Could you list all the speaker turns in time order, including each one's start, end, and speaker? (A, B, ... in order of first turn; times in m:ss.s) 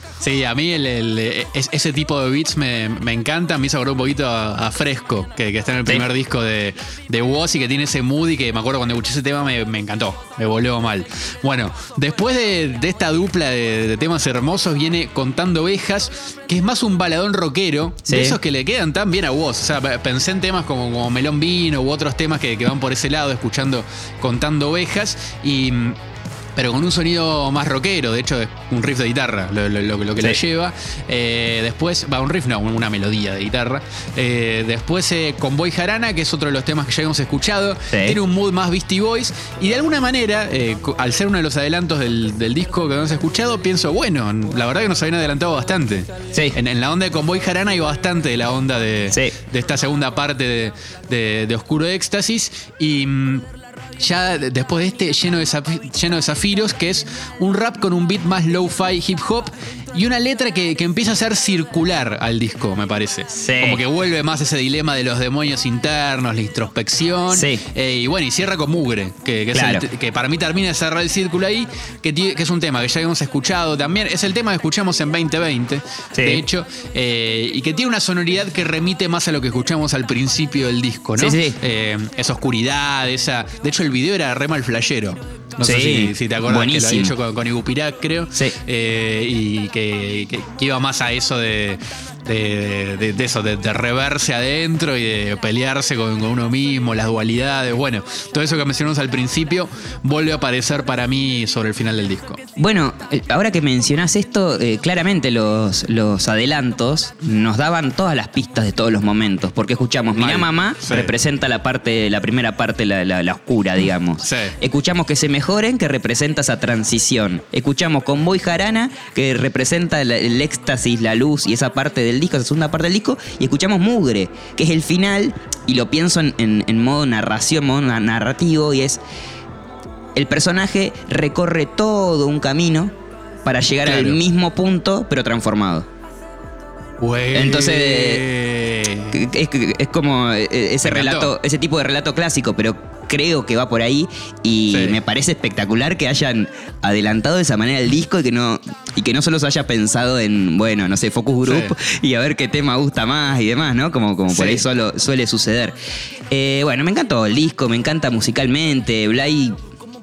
0:00.2-0:26.0 A
0:18.1-0:18.4 B
0:26.5-0:53.4 A
0:37.9-0:38.2 B
0:54.0-1:42.4 A
1:03.3-1:03.8 B
1:07.3-1:07.6 B
1:09.5-1:09.8 B
1:16.1-1:16.4 B
1:21.2-1:21.6 B
1:25.6-1:27.1 B
1:42.6-2:09.0 B
1:50.1-1:51.1 A
1:54.2-1:54.5 A
2:10.1-2:12.9 B
2:13.4-2:15.9 B
2:13.8-2:14.2 A
2:17.0-2:19.2 A
2:17.3-2:18.2 B
2:19.1-2:35.7 B
2:20.8-2:21.3 A
2:24.7-2:25.0 A
2:31.4-2:31.7 A
2:34.3-2:34.6 A
2:36.3-2:39.6 B